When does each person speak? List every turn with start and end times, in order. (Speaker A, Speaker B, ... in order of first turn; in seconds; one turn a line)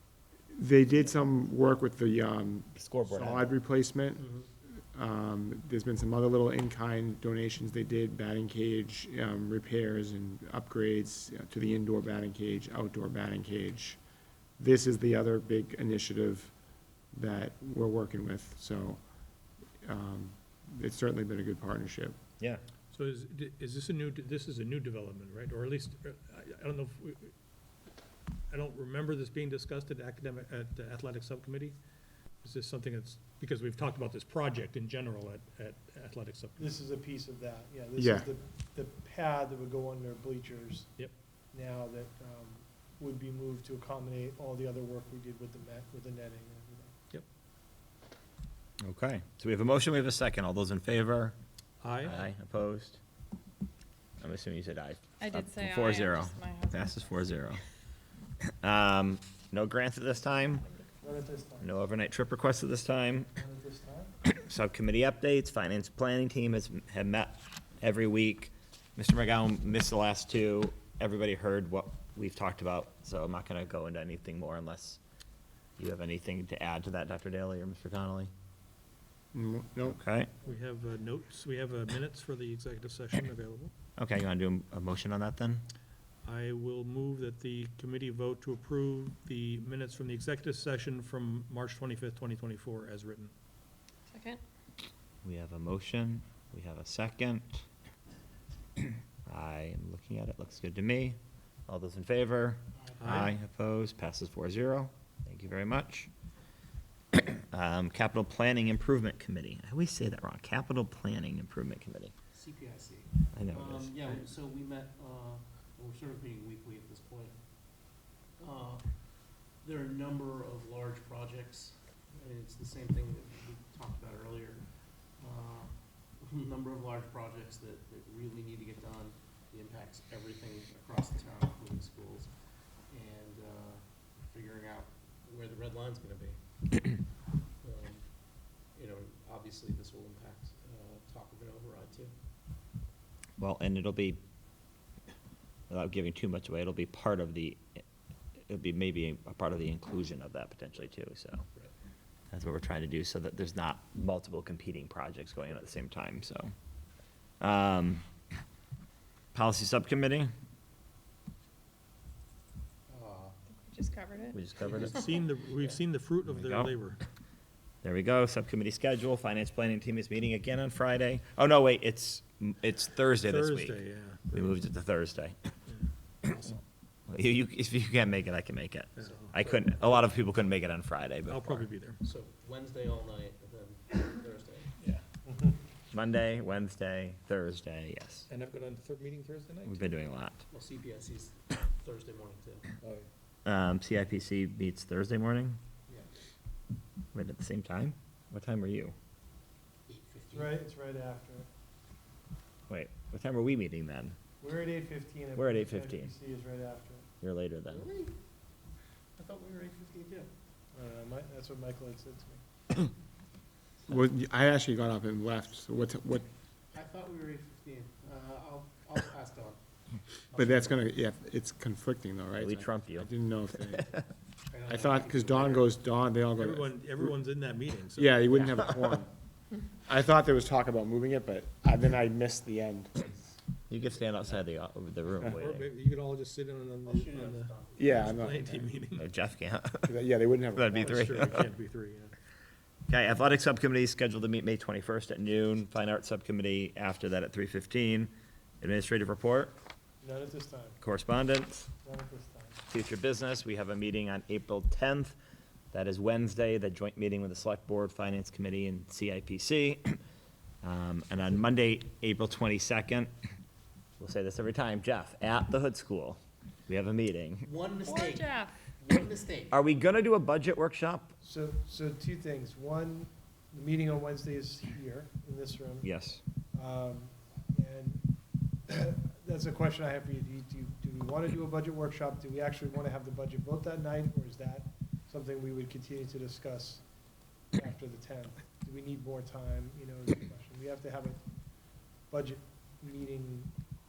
Speaker A: 0.5-4.2
Speaker B: 2.8-3.6
Speaker C: 4.2-4.5
Speaker A: 4.9-14.0
Speaker A: 14.6-16.6
Speaker A: 17.1-19.1
Speaker A: 19.8-22.2
Speaker D: 22.9-27.3
Speaker D: 28.5-31.8
Speaker D: 32.4-36.7
Speaker E: 36.6-40.9
Speaker A: 38.0-38.3
Speaker E: 41.5-46.9
Speaker B: 48.8-51.4
Speaker D: 51.8-52.2
Speaker B: 52.0-53.0
Speaker B: 54.2-57.6
Speaker F: 55.2-57.3
Speaker B: 58.6-60.7
Speaker E: 61.0-61.7
Speaker B: 61.6-63.3
Speaker E: 63.3-64.2
Speaker B: 64.2-75.0
Speaker B: 75.8-78.3
Speaker A: 79.3-80.0
Speaker B: 79.8-80.3
Speaker D: 80.4-83.7
Speaker B: 84.0-85.6
Speaker D: 86.2-93.3
Speaker F: 94.1-94.4
Speaker B: 95.2-97.7
Speaker B: 99.2-101.2
Speaker B: 101.7-106.1
Speaker C: 102.8-103.0
Speaker D: 103.0-103.3
Speaker B: 107.1-112.1
Speaker C: 112.3-117.4
Speaker B: 113.3-114.0
Speaker C: 118.4-118.9
Speaker C: 119.6-124.7
Speaker C: 125.2-132.3
Speaker C: 132.9-136.9
Speaker C: 137.6-138.0
Speaker C: 138.7-142.1
Speaker B: 143.4-144.2
Speaker B: 145.7-147.8
Speaker B: 148.5-151.4
Speaker B: 152.3-156.5
Speaker B: 157.4-158.1
Speaker B: 159.3-160.3
Speaker C: 162.9-163.4
Speaker F: 163.5-164.4
Speaker B: 164.3-165.0
Speaker C: 164.6-164.9
Speaker D: 164.8-167.0
Speaker B: 166.3-166.8
Speaker B: 167.8-175.4
Speaker D: 173.2-174.3
Speaker D: 175.7-176.6
Speaker B: 177.1-181.7
Speaker D: 179.0-180.1
Speaker C: 179.0-179.7
Speaker D: 181.3-182.0
Speaker C: 182.0-184.7
Speaker E: 185.3-185.6
Speaker B: 185.9-188.3
Speaker D: 188.3-189.9
Speaker B: 189.7-190.4
Speaker C: 190.5-192.7
Speaker D: 192.8-193.1
Speaker B: 193.4-195.6
Speaker B: 197.1-198.9
Speaker C: 199.9-200.6
Speaker E: 200.3-201.5
Speaker B: 202.7-204.2
Speaker E: 204.4-207.1
Speaker B: 205.4-206.1
Speaker B: 207.2-207.9
Speaker C: 207.7-208.2
Speaker C: 209.2-210.3
Speaker E: 210.7-212.4
Speaker A: 213.9-216.3
Speaker C: 216.7-219.6
Speaker C: 220.3-220.8
Speaker A: 220.3-223.9
Speaker B: 222.4-223.1
Speaker C: 224.5-225.7
Speaker A: 224.7-227.1
Speaker D: 226.3-228.8
Speaker A: 227.9-229.1
Speaker A: 229.9-233.1
Speaker B: 233.7-235.7
Speaker D: 235.2-239.1
Speaker C: 236.8-238.1
Speaker A: 237.8-238.7
Speaker B: 239.0-239.9
Speaker A: 239.8-241.2
Speaker B: 240.6-241.5
Speaker D: 240.7-242.1
Speaker B: 242.9-249.6
Speaker E: 250.0-250.8
Speaker B: 250.8-251.7
Speaker E: 251.8-252.6
Speaker B: 252.7-255.2
Speaker B: 255.7-260.0
Speaker B: 260.6-263.1
Speaker B: 264.0-267.5
Speaker C: 267.4-269.5
Speaker F: 267.8-268.6
Speaker B: 269.5-271.1
Speaker E: 271.2-275.9
Speaker B: 275.8-276.2
Speaker E: 276.5-278.1
Speaker E: 278.7-286.8
Speaker E: 287.5-291.2
Speaker E: 292.1-293.5